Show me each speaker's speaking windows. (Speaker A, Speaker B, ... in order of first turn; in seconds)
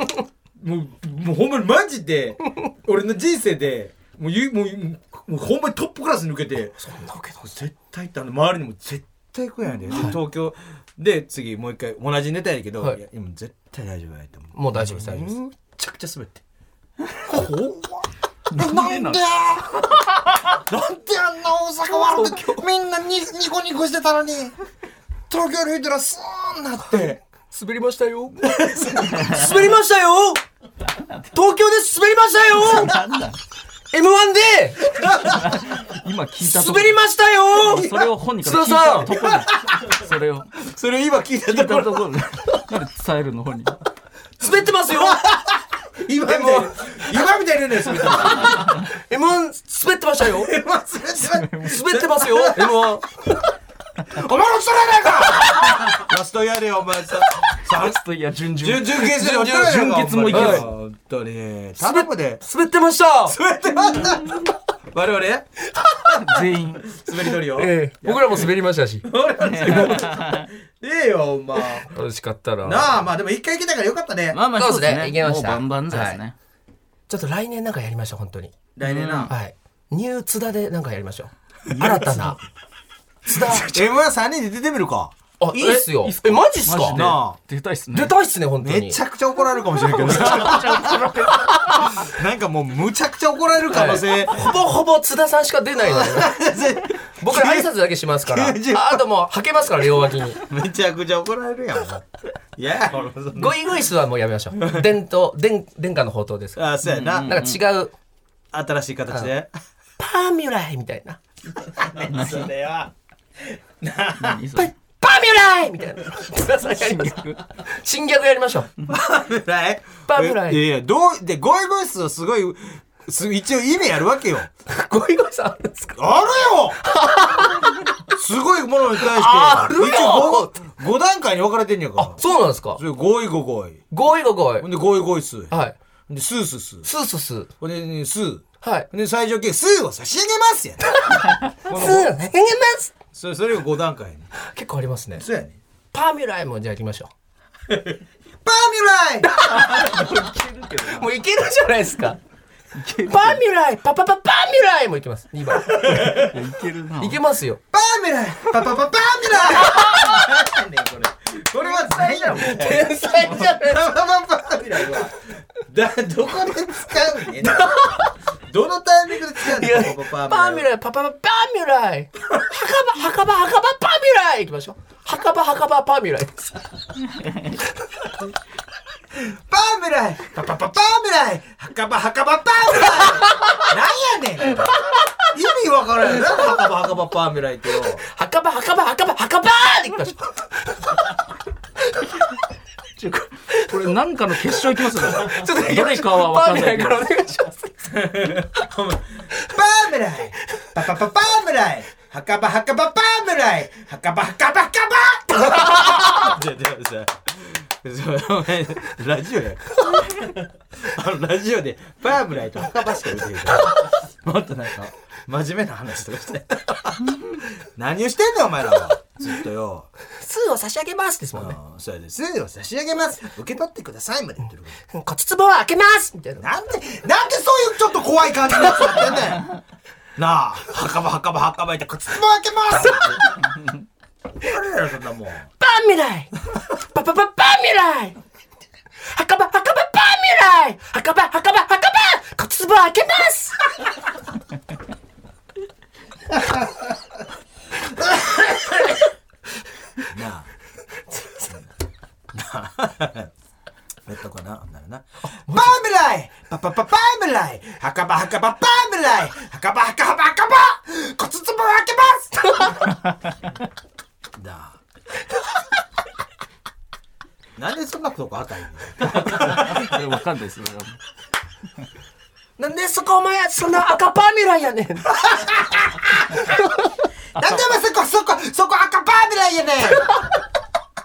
Speaker A: 0.6-6.8, 7.4-16.4, 17.1-24.6, 25.3-27.2, 28.4-29.5, 35.0-35.5, 37.6-38.1, 39.1-40.1, 40.6-42.3, 44.9-48.8, 50.2-53.0, 54.1-58.0, 58.6-62.4, 63.3-65.5, 66.2-68.5, 69.0-71.9, 72.6-74.4, 78.8-79.3, 81.7-82.2, 83.3-85.1, 86.9-87.4, 88.6-94.5, 95.8-99.1, 100.4-103.6, 104.6-104.9, 106.6-107.5, 108.5-109.5, 111.6-114.4, 118.9-124.5, 126.0-126.8, 128.1-132.2, 132.8-133.8, 134.6-135.5, 136.1-136.9, 137.6-142.1, 143.1-144.3, 145.2-145.6, 147.7-149.3, 155.7-156.3, 157.7-170.7, 179.2-188.0, 197.9-219.9, 221.3-224.8, 226.4-229.5, 230.2-233.2, 234.4-235.5, 248.0-248.9, 250.0-250.5, 252.3-253.3, 254.1-262.8, 264.4-264.8, 267.6-269.9, 275.2-276.1, 277.4-280.2
Speaker B: 6.8-7.4, 9.9-10.2, 14.6-15.4, 21.9-22.6, 27.5-28.5, 29.0-30.4, 31.3-33.0, 33.9-35.2, 36.4-37.9, 38.4-39.2, 44.4-45.3, 46.3-46.8, 48.2-50.5, 51.6-53.1, 59.1-60.7, 61.8-63.4, 65.7-66.2, 67.4-69.1, 69.6-70.1, 71.8-73.0, 74.5-76.2, 77.1-78.6, 79.3-82.4, 83.3-83.8, 85.4-87.2, 87.9-89.0, 90.2-90.5, 93.7-96.4, 97.2-100.4, 103.3-106.6, 107.2-107.9, 110.0-111.2, 114.6-118.7, 120.1-120.6, 124.7-126.0, 126.8-127.9, 129.0-130.5, 132.0-132.8, 133.9-134.7, 135.5-135.8, 136.8-137.5, 138.6-138.9, 141.1-142.9, 144.4-145.2, 145.9-147.1, 149.2-150.1, 150.8-152.2, 153.1-156.3, 157.0-157.6, 159.6-160.1, 161.6-164.0, 167.4-168.1, 169.4-176.6, 182.9-183.7, 186.2-186.6, 188.0-190.7, 194.9-198.4, 205.3-206.3, 220.2-221.6, 224.9-226.5, 232.7-233.2, 235.6-238.2, 239.1-243.7, 251.1-251.6, 255.2-255.8, 262.4-262.8, 272.6-275.6, 276.3-276.9
Speaker C: 18.5-19.2, 32.5-33.4, 35.3-37.0, 37.6-40.5, 41.5-43.8, 51.2-51.8, 57.7-60.7, 66.2-66.9, 69.5-70.5, 74.3-76.3, 78.8-79.3, 85.6-88.1, 89.9-92.0, 106.8-107.6, 112.1-112.5, 114.2-114.7, 116.7-117.4, 149.5-151.1, 152.7-153.4, 156.1-157.2, 193.0-197.0, 269.2-271.0